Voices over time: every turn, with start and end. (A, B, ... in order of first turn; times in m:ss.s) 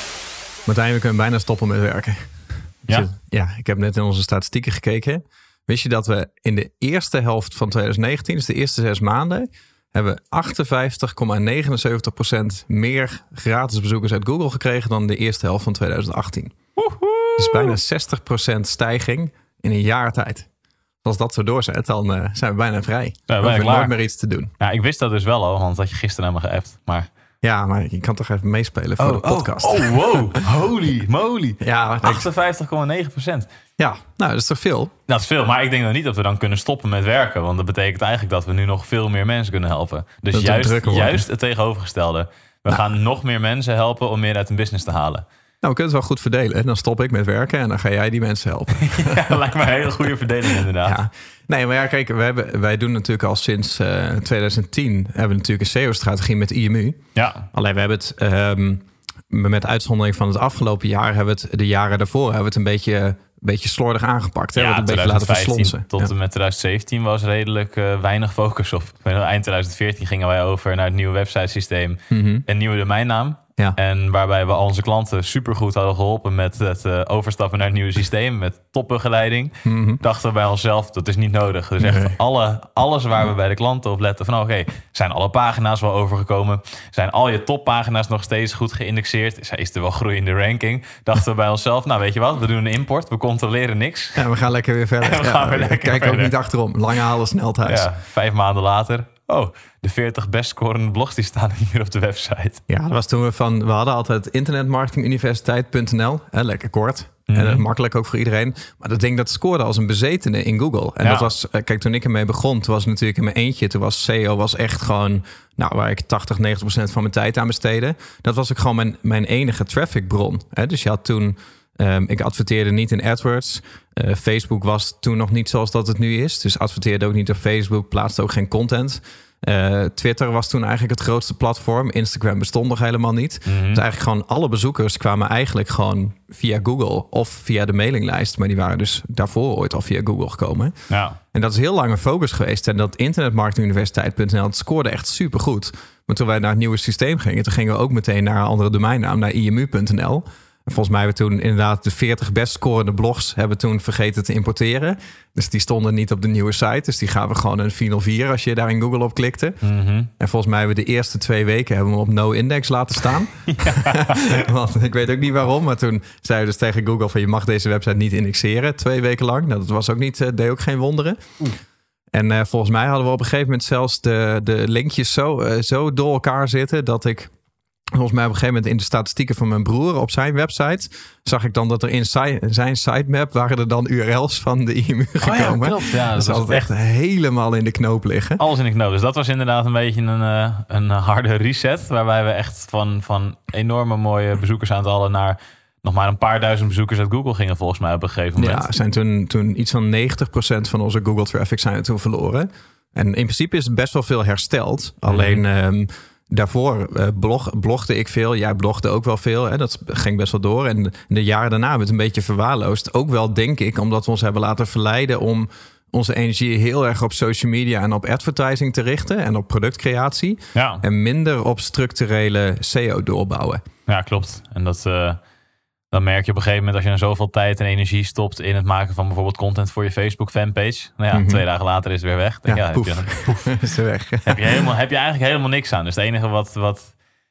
0:00.7-0:02.2 A
0:02.9-0:16.6 A
0:16.8-0:17.8 B
0:17.4-0:20.5 A
0:21.0-0:24.5 A
0:23.3-0:23.9 B
0:24.6-0:27.1 B
0:27.4-0:30.4 A
0:29.0-0:33.5 B
0:31.6-0:32.3 A
0:33.8-0:34.9 A
0:35.1-0:45.2 B
0:40.3-0:41.2 A
0:45.6-0:49.4 A
0:48.8-0:51.0 B
0:50.8-0:57.0 A
0:57.2-0:57.5 B
0:57.5-1:06.1 A
1:04.6-1:34.3 B
1:12.1-1:12.4 A
1:19.6-1:20.0 A
1:21.8-1:22.1 A
1:34.2-1:37.9 A
1:35.0-1:36.3 B
1:37.6-1:42.6 B
1:42.7-2:20.7 A
1:47.3-1:47.6 B
1:51.0-1:51.3 B
2:13.5-2:13.8 B
2:20.9-2:21.2 B
2:21.3-2:39.6 A
2:39.6-2:40.1 B
2:40.2-2:51.2 A
2:43.5-2:44.4 B
2:52.1-2:57.3 A
2:57.9-3:08.4 A
3:05.2-3:06.7 B
3:08.4-3:18.7 B
3:18.4-3:43.6 A
3:25.1-3:25.4 B
3:40.5-3:40.8 B
3:43.9-3:45.2 B
3:45.9-3:53.6 B
3:51.1-3:51.4 A
3:52.5-3:54.5 A
3:54.2-3:56.9 B